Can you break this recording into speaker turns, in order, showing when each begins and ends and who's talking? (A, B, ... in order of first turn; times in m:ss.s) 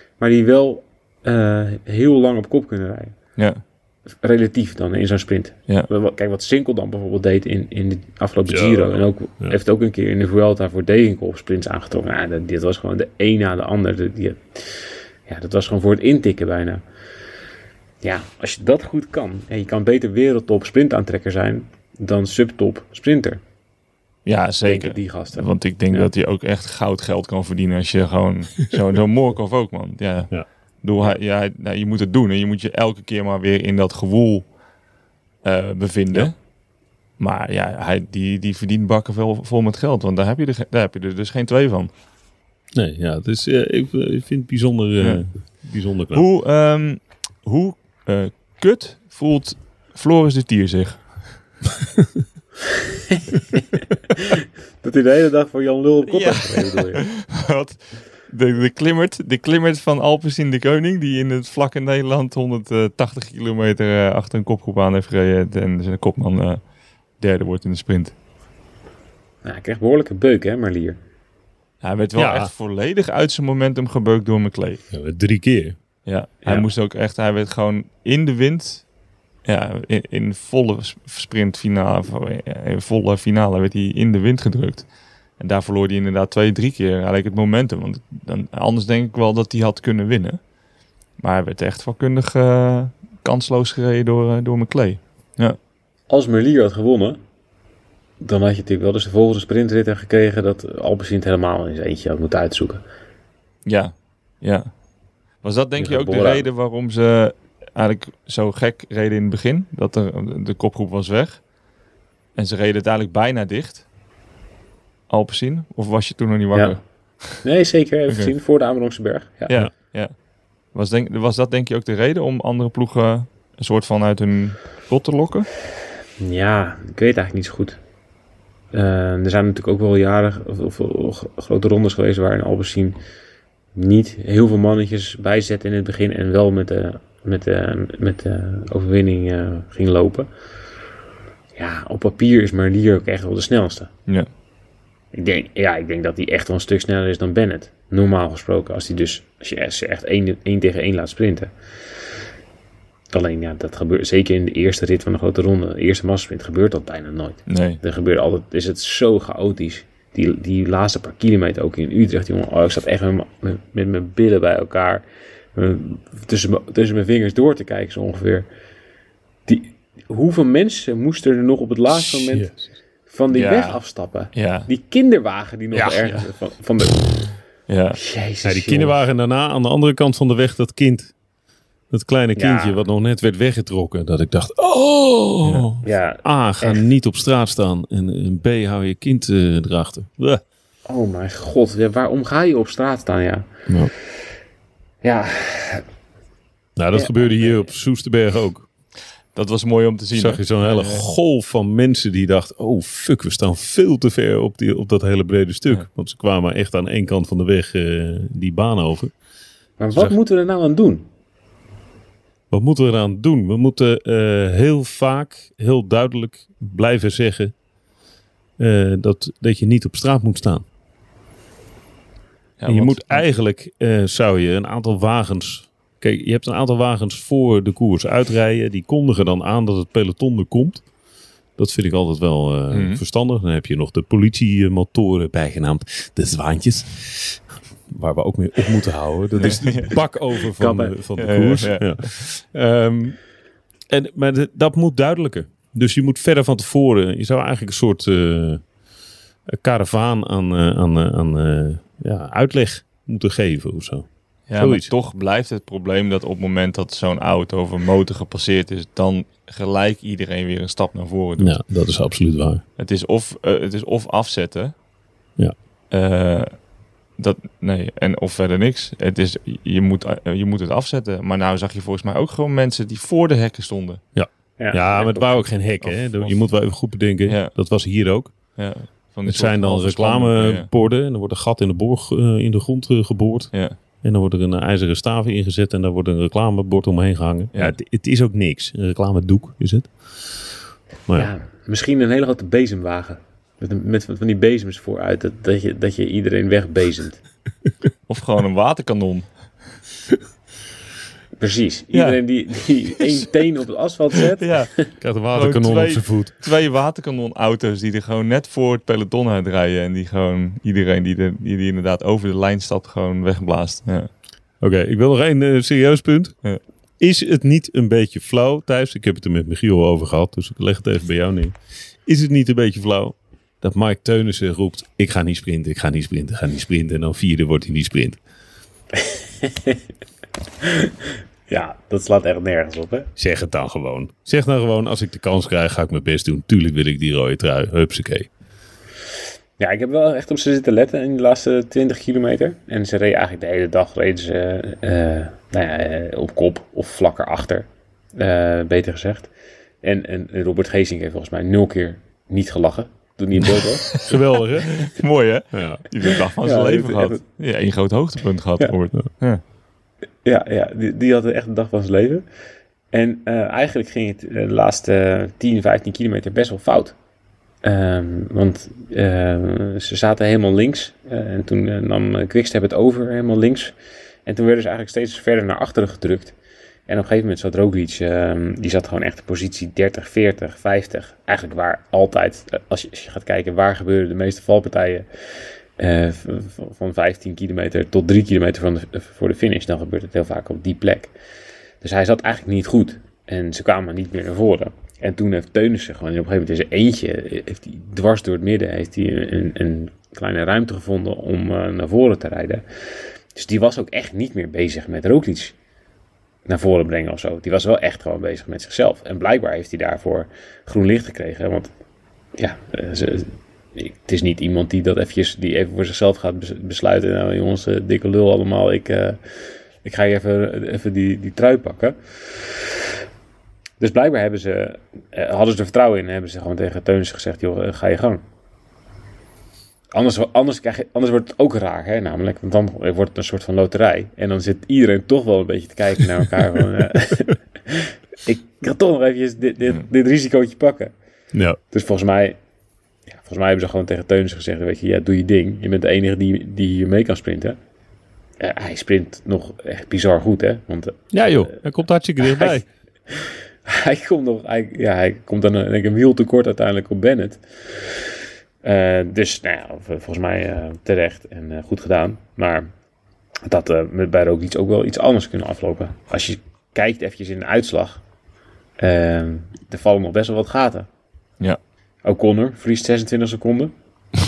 0:00.2-0:03.1 A
0:03.4-0:03.6 B
0:04.2-0:16.8 A
0:08.5-0:09.6 C
0:18.0-0:23.4 A
0:24.2-0:34.6 B
0:24.6-0:26.1 A
0:35.4-0:36.5 B
0:37.2-0:41.9 B
0:42.7-0:46.3 C
0:45.0-0:51.4 B
0:53.1-0:53.6 A
0:54.2-0:57.0 A
0:56.0-1:06.7 B
1:07.2-1:08.1 B
1:09.4-1:11.0 A
1:11.8-1:14.8 B
1:12.2-1:12.5 C
1:14.9-1:15.8 C
1:16.0-1:18.9 B
1:16.4-1:16.7 A
1:19.4-1:30.5 B
1:31.2-1:35.6 B
1:36.1-1:37.2 A
1:38.2-1:42.8 A
1:43.6-1:44.8 B
1:45.3-1:51.5 B
1:45.8-1:46.5 A
1:52.3-1:53.8 B
1:55.1-1:57.4 B
1:56.5-1:59.6 A
1:59.5-2:00.1 B
2:00.7-2:05.5 B
2:06.2-2:07.8 A
2:08.7-2:13.0 A
2:13.7-2:20.3 A
2:21.5-2:23.9 A
2:25.1-2:31.5 A
2:33.1-2:48.5 A
2:37.5-2:37.8 B
2:49.4-2:52.5 A
2:51.9-2:52.7 C
2:53.0-2:57.4 A
2:53.3-2:54.7 B
2:55.7-2:56.0 C
2:57.7-2:58.0 B
2:58.0-2:59.0 A
2:58.4-3:01.2 C
3:01.9-3:10.4 C
3:02.4-3:02.8 A
3:05.8-3:06.9 A
3:10.9-3:13.5 A
3:13.7-3:13.9 C
3:15.0-3:15.8 A
3:16.8-3:18.7 C
3:16.9-3:17.7 A
3:19.3-3:21.1 B
3:20.1-3:29.2 C
3:29.8-3:31.0 A
3:32.5-3:37.6 C
3:38.6-3:40.6 C
3:42.6-3:43.3 B
3:42.6-3:50.9 C
3:51.5-4:03.2 C
3:52.7-3:53.0 B
3:59.4-4:00.1 B
4:00.6-4:01.0 A
4:01.2-4:01.9 B
4:03.9-4:08.7 C
4:09.5-4:14.9 C
4:14.5-4:21.6 B
4:21.4-4:22.6 C
4:22.8-4:24.8 B
4:25.9-4:34.0 B
4:34.1-4:38.6 C
4:34.6-4:35.4 A
4:35.8-4:37.9 B
4:38.5-4:40.7 B
4:39.2-4:51.3 C
4:51.1-4:57.2 A
4:58.1-4:59.5 B
5:01.4-5:04.8 A
5:01.9-5:03.0 B
5:04.4-5:14.1 B
5:05.0-5:06.3 C
5:14.6-5:16.5 C
5:17.0-5:28.2 C
5:29.0-5:29.8 A
5:30.6-5:30.9 A
5:31.5-5:33.1 A
5:33.2-5:38.3 C
5:39.6-5:49.3 A
5:49.8-5:54.0 A
5:54.0-5:59.4 B
5:54.0-5:55.0 C
5:55.5-5:55.8 C
5:56.4-5:57.2 A
6:00.2-6:02.2 A
6:02.9-6:07.0 A
6:07.6-6:16.3 A
6:16.9-6:31.1 A
6:31.8-6:45.5 A
6:46.4-6:51.7 A
6:52.4-6:59.2 A
6:59.8-7:02.6 A
7:03.8-7:08.2 A
7:09.9-7:20.9 A
7:21.3-7:21.6 C
7:21.7-7:22.4 A
7:23.1-7:27.6 A
7:28.4-7:31.5 A
7:31.1-7:32.6 C
7:32.2-7:38.1 A
7:38.6-7:42.7 A
7:43.4-7:48.0 A
7:48.8-7:50.9 A
7:52.0-7:53.7 A